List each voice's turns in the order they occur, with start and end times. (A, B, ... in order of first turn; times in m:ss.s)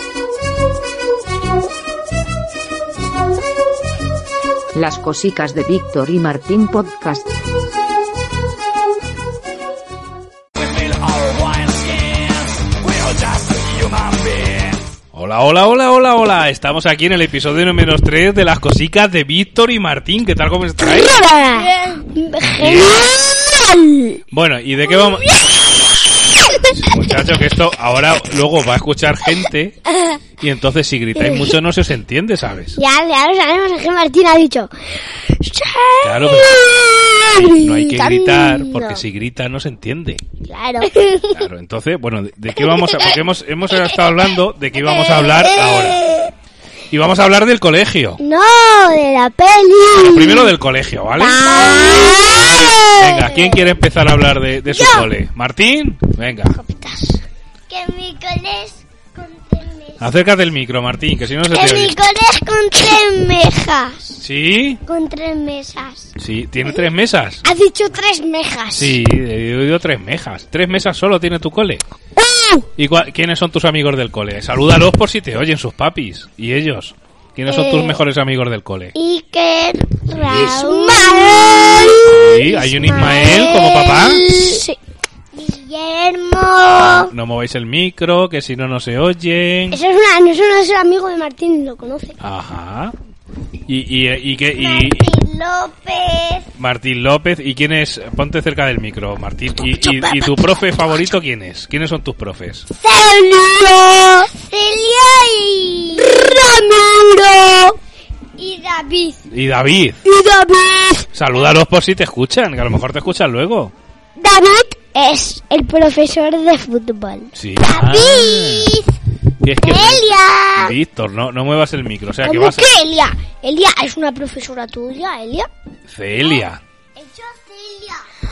0:04.7-0:07.3 A
0:15.1-0:21.2 B
0:20.8-0:24.2 C
0:22.5-0:23.1 B
0:24.3-0:25.4 B
0:24.9-0:25.6 C
0:26.3-0:26.6 C
0:26.5-0:29.8 B
0:29.9-0:30.2 C
0:30.4-0:32.8 B
0:31.2-0:31.5 C
0:32.7-0:39.0 C
0:36.0-0:40.2 B
0:40.4-0:41.4 C
0:41.3-0:46.0 B
0:42.6-0:43.2 C
0:44.8-0:46.3 C
0:46.9-0:48.2 B
0:48.2-0:50.5 C
0:49.9-0:56.6 B
0:51.1-0:53.8 C
0:54.7-0:55.1 C
0:56.5-1:00.1 C
1:00.0-1:01.9 B
1:01.5-1:04.2 C
1:04.2-1:04.8 B
1:04.8-1:06.1 C
1:06.2-1:07.4 B
1:07.4-1:09.0 C
1:08.7-1:11.8 B
1:12.2-1:12.6 C
1:12.8-1:18.9 B
1:17.5-1:18.0 C
1:18.9-1:24.8 C
1:20.1-1:24.5 B
1:25.3-1:27.1 C
1:26.7-1:29.8 B
1:29.7-1:32.2 C
1:32.2-1:32.9 B
1:33.7-1:35.1 B
1:34.5-1:36.5 C
1:36.6-1:42.7 B
1:39.6-1:40.6 C
1:42.7-1:47.8 C
1:48.4-1:49.3 C
1:49.3-1:50.0 B
1:50.0-1:51.1 C
1:51.1-1:53.7 B
1:54.2-1:58.9 C
1:57.3-1:58.7 B
1:59.4-2:02.7 B
1:59.6-2:00.8 C
2:02.2-2:05.5 C
2:05.9-2:06.6 B
2:07.0-2:08.1 C